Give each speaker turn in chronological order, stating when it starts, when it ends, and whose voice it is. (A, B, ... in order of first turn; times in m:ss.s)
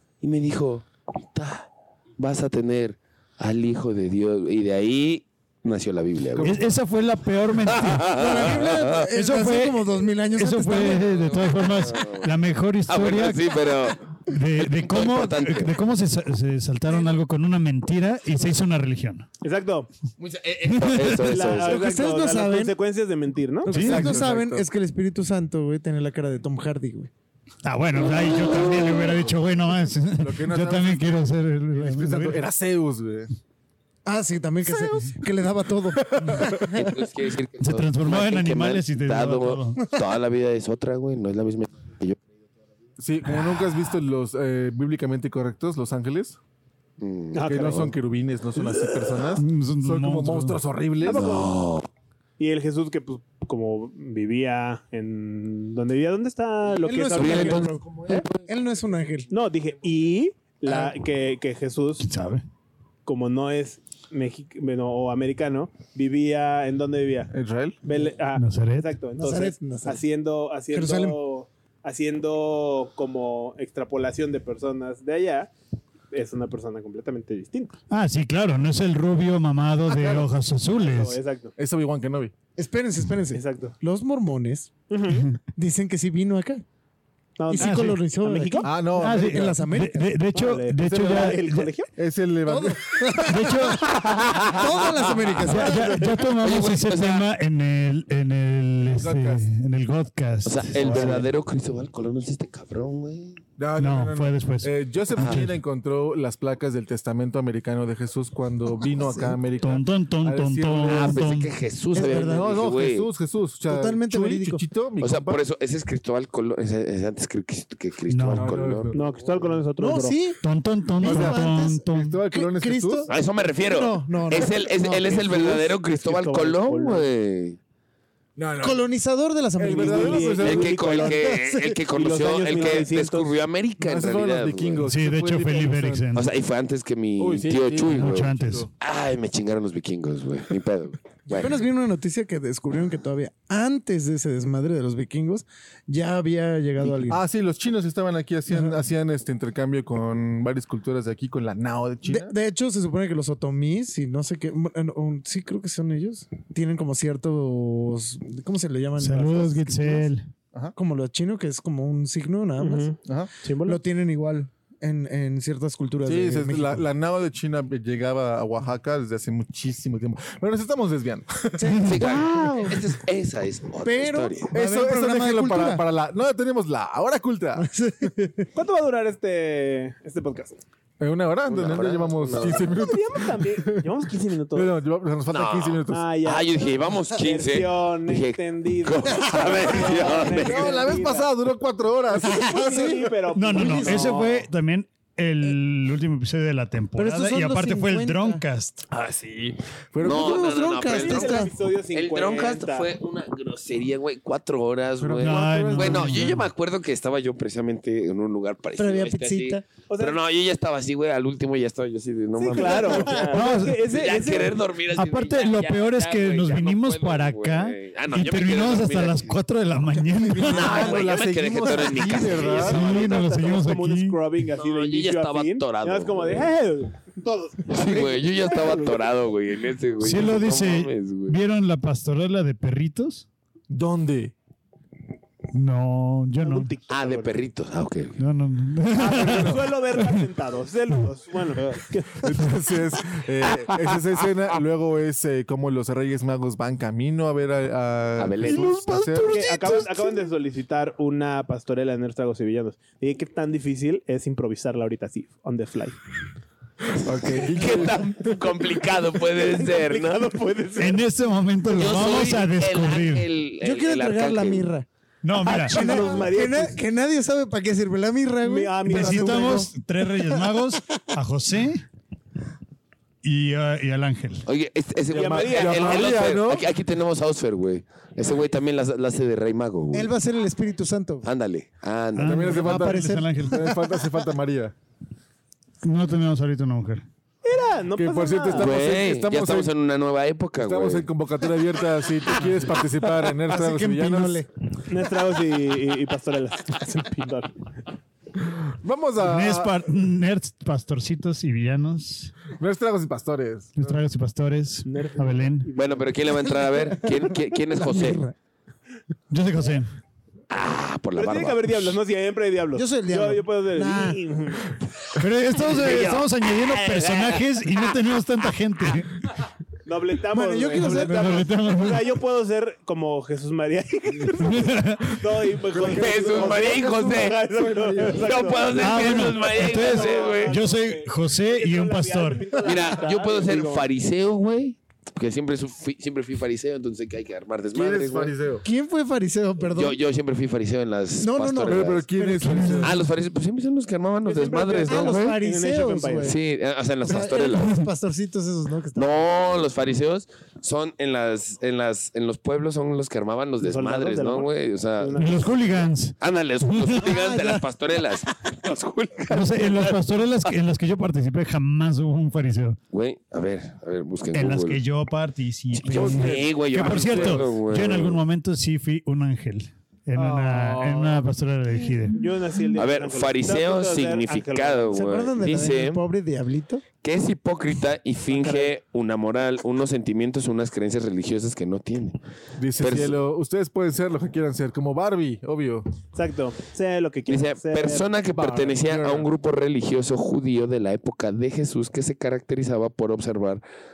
0:00.2-0:06.6 A
0:06.3-0:06.7 B
0:06.4-0:09.8 C
0:07.6-0:09.0 A
0:08.1-0:11.1 D
0:10.4-0:13.5 C
0:10.9-0:14.0 A
0:14.3-0:19.3 C
0:14.6-0:15.7 A
0:19.4-0:19.9 E
0:20.2-0:21.8 A
0:20.6-0:21.4 C
0:21.2-0:23.7 E
0:21.5-0:22.7 D
0:23.6-0:27.1 D
0:23.7-0:24.7 B
0:23.7-0:24.2 C
0:27.6-0:32.4 C
0:28.2-0:28.9 A
0:30.2-0:31.2 B
0:31.7-0:33.3 B
0:34.0-0:36.8 D
0:36.0-0:36.7 B
0:36.6-0:42.2 A
0:37.6-0:39.8 C
0:43.0-0:46.4 B
0:47.0-0:47.5 A
0:47.3-0:47.9 E
0:47.4-0:51.4 B
0:49.4-0:50.6 C
0:51.0-0:51.6 E
0:51.0-0:51.9 A
0:52.4-0:57.7 E
0:56.8-0:59.3 D
0:57.1-0:58.4 A
0:59.3-1:02.1 E
1:02.0-1:02.4 C
1:03.0-1:07.3 E
1:07.3-1:07.8 B
1:07.8-1:15.5 E
1:08.4-1:08.9 C
1:09.2-1:10.0 D
1:10.7-1:11.2 D
1:16.1-1:17.7 E
1:17.9-1:21.2 C
1:19.9-1:20.3 B
1:20.8-1:21.5 E
1:21.6-1:22.3 B
1:22.6-1:24.8 D
1:23.3-1:23.7 E
1:24.9-1:25.3 E
1:25.5-1:26.6 D
1:27.4-1:28.8 E
1:27.5-1:30.1 D
1:27.6-1:28.0 C
1:28.6-1:29.5 B
1:28.9-1:31.7 C
1:30.3-1:31.9 E
1:30.8-1:31.4 B
1:32.0-1:33.5 B
1:32.5-1:36.2 D
1:33.2-1:33.9 C
1:34.2-1:35.4 A
1:35.4-1:41.3 C
1:36.4-1:37.3 A
1:38.9-1:39.5 B
1:40.4-1:43.4 A
1:40.8-1:41.2 B
1:43.6-1:51.3 B
1:43.8-1:45.6 C
1:45.2-1:45.4 A
1:49.6-1:51.5 C
1:50.8-1:53.1 A
1:51.9-1:52.5 D
1:52.1-1:55.4 B
1:53.7-1:54.6 D
1:55.0-1:58.9 A
1:58.1-1:58.6 C
1:58.3-1:59.1 B
1:58.9-2:00.2 E
1:59.8-2:00.4 D
2:00.4-2:02.2 C
2:00.9-2:05.3 D
2:01.0-2:03.1 B
2:03.1-2:07.6 A
2:05.0-2:07.0 E
2:08.4-2:08.8 B
2:08.6-2:10.4 D
2:09.6-2:11.1 B
2:09.6-2:11.3 E
2:10.4-2:14.8 A
2:11.0-2:11.8 D
2:11.9-2:13.3 E
2:13.8-2:16.1 B
2:14.8-2:16.3 C
2:16.1-2:21.6 A
2:17.2-2:18.7 B
2:17.9-2:18.7 C
2:21.3-2:27.2 D
2:27.1-2:32.3 B
2:28.5-2:28.8 D
2:32.0-2:40.1 D
2:39.0-2:40.3 C
2:40.8-2:43.0 D
2:42.6-2:43.8 E
2:43.0-2:43.3 B
2:43.6-2:46.8 D
2:46.0-2:51.8 B
2:51.6-2:52.8 D
2:51.7-2:52.0 C
2:51.8-2:54.5 A
2:53.8-2:55.8 D
2:54.5-2:57.7 B
2:57.6-2:58.5 D
2:58.5-3:00.6 E
3:01.0-3:03.8 B
3:01.4-3:02.8 A
3:02.6-3:04.7 E
3:04.5-3:06.1 B
3:05.3-3:10.7 A
3:05.9-3:11.3 E
3:10.3-3:12.9 B
3:12.2-3:14.4 E
3:12.6-3:14.2 D
3:13.3-3:18.8 C
3:17.0-3:18.4 D
3:18.9-3:39.4 A
3:19.9-3:20.6 B
3:20.0-3:21.5 D
3:20.8-3:22.9 E
3:25.0-3:26.4 B
3:25.2-3:26.5 C
3:28.8-3:29.6 D
3:29.9-3:30.2 E
3:32.4-3:34.6 E
3:33.3-3:33.8 C
3:34.9-3:41.0 C
3:40.4-3:43.1 A
3:40.5-3:42.8 B
3:42.3-3:49.0 E
3:42.6-3:44.2 C
3:44.5-3:46.5 A
3:47.7-3:51.4 A
3:50.0-3:53.2 C
3:53.7-3:54.3 B
3:55.5-3:56.7 C
3:56.4-3:57.4 E
3:56.9-3:58.2 A
3:58.2-4:00.2 C
3:58.9-4:02.4 E
3:59.2-3:59.6 B
4:02.2-4:09.4 B
4:08.2-4:09.8 A
4:08.4-4:09.8 C
4:09.2-4:16.0 E
4:16.9-4:18.3 B
4:17.2-4:20.3 A
4:19.2-4:21.0 E
4:20.8-4:23.3 C
4:21.7-4:24.7 A
4:23.6-4:24.8 D
4:25.2-4:26.2 C
4:25.4-4:26.8 E
4:25.6-4:30.6 D
4:28.4-4:29.7 E
4:28.9-4:31.8 C
4:33.2-4:34.4 C
4:34.4-4:40.1 A
4:35.1-4:36.2 E
4:35.1-4:36.7 B
4:39.9-4:41.3 D
4:41.2-4:42.6 A
4:42.2-4:43.7 C
4:42.2-4:44.7 B
4:42.5-4:43.7 D
4:45.8-4:47.0 C
4:47.4-4:48.7 E
4:48.0-4:49.7 B
4:48.6-4:51.1 A
4:50.6-4:54.4 B
4:53.4-4:54.5 D
4:54.9-4:57.5 E
4:58.5-4:59.8 B
4:59.2-5:02.3 C
5:02.6-5:04.0 B
5:03.8-5:05.7 C
5:04.8-5:06.1 E
5:05.7-5:08.2 A
5:07.1-5:08.3 D
5:09.3-5:09.9 C
5:10.5-5:12.0 A
5:11.2-5:14.8 E
5:12.7-5:14.2 D
5:15.2-5:19.2 C
5:15.5-5:17.9 A
5:19.8-5:33.9 E
5:20.3-5:21.4 D
5:20.9-5:22.2 C
5:24.4-5:25.2 C
5:25.7-5:28.6 B
5:25.9-5:27.4 A
5:28.1-5:30.6 A
5:28.7-5:32.5 C
5:32.6-5:38.3 A
5:37.7-5:38.6 B
5:38.6-5:40.0 D
5:39.7-5:42.0 A
5:41.2-5:43.0 D
5:41.6-5:43.0 B
5:42.8-5:45.4 A
5:44.2-5:46.3 E
5:44.8-5:46.4 D
5:46.2-5:47.8 A
5:47.0-5:49.2 D
5:48.9-5:55.4 A
5:53.6-5:55.8 E
5:55.2-5:57.1 C
5:56.2-6:00.5 A
5:57.0-5:57.6 D
5:59.3-6:02.8 C
6:02.9-6:04.8 A
6:04.3-6:12.2 C
6:05.7-6:08.2 A
6:05.9-6:07.5 B
6:10.2-6:11.3 B
6:12.1-6:15.0 E
6:12.7-6:16.0 A
6:14.9-6:16.8 D
6:17.0-6:22.2 A
6:18.3-6:18.7 E
6:22.6-6:25.9 B
6:22.8-6:23.1 A
6:26.1-6:28.1 E
6:27.3-6:33.6 A
6:28.3-6:29.3 B